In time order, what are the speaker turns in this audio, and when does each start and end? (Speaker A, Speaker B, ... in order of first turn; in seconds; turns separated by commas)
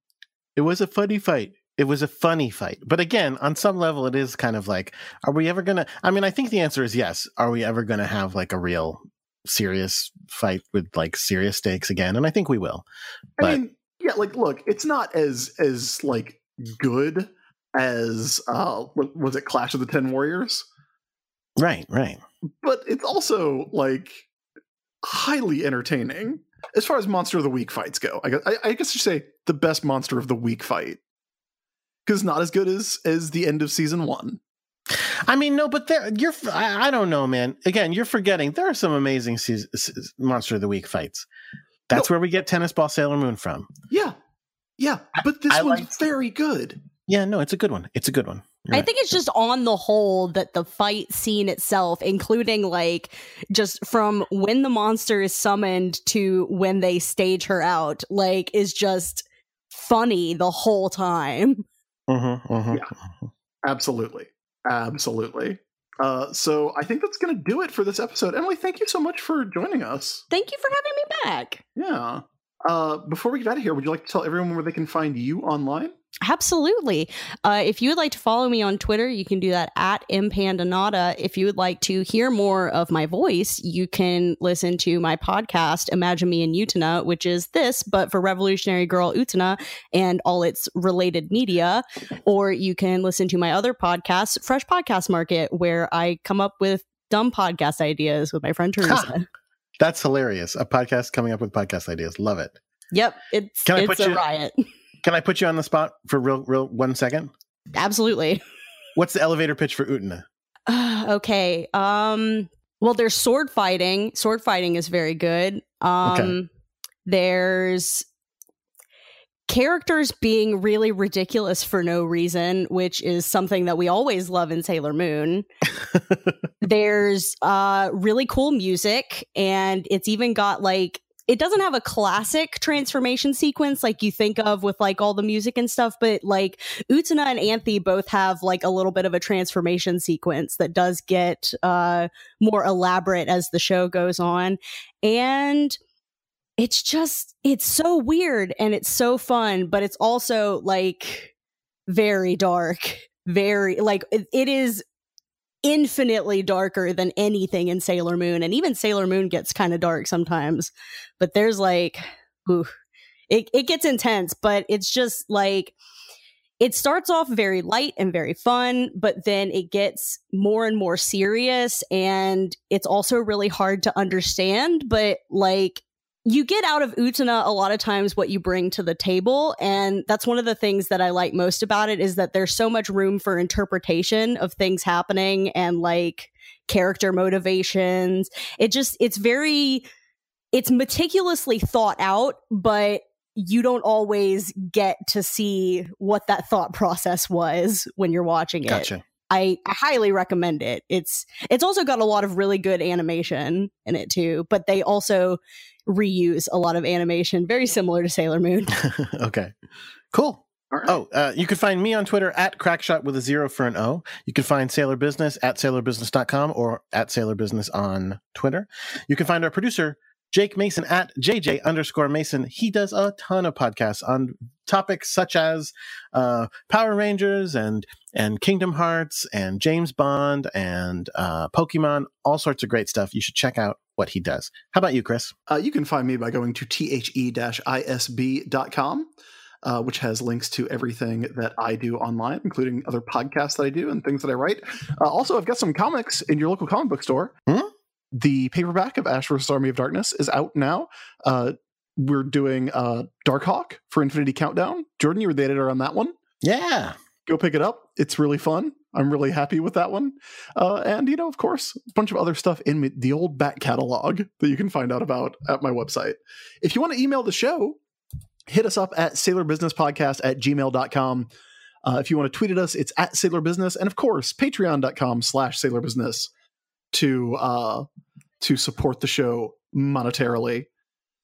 Speaker A: 0.6-12.9, Speaker B: 13.4-20.6, Speaker A: 21.6-22.2, Speaker B: 22.6-24.2, Speaker B: 25.0-31.0, Speaker B: 32.0-34.4, Speaker A: 34.9-41.3, Speaker A: 41.9-43.7, Speaker B: 43.9-44.1, Speaker B: 44.8-46.8, Speaker A: 45.5-45.9, Speaker A: 47.1-48.9, Speaker C: 48.7-61.6, Speaker A: 62.1-62.9, Speaker B: 63.6-70.2, Speaker C: 70.3-71.6, Speaker B: 71.8-75.9, Speaker C: 76.2-99.3, Speaker A: 98.8-99.1, Speaker A: 99.8-102.6, Speaker C: 102.9-104.6, Speaker A: 103.7-104.2, Speaker A: 105.0-107.3, Speaker C: 107.7-108.4, Speaker A: 108.9-110.2, Speaker C: 110.7-116.5, Speaker A: 116.0-116.3, Speaker C: 117.0-118.0, Speaker C: 119.5-125.5, Speaker C: 126.6-145.8, Speaker C: 146.6-151.3, Speaker C: 151.9-154.8, Speaker C: 155.6-162.7, Speaker C: 163.3-165.7, Speaker C: 166.6-189.8, Speaker C: 190.5-208.8, Speaker A: 198.7-199.0, Speaker A: 208.7-209.5, Speaker A: 210.1-235.3, Speaker B: 210.7-211.0, Speaker B: 235.5-239.1, Speaker B: 239.6-247.3, Speaker B: 248.1-256.1, Speaker A: 256.4-256.9, Speaker B: 257.2-267.8, Speaker B: 268.5-271.3, Speaker B: 271.8-276.3, Speaker B: 276.9-277.9, Speaker B: 278.4-280.7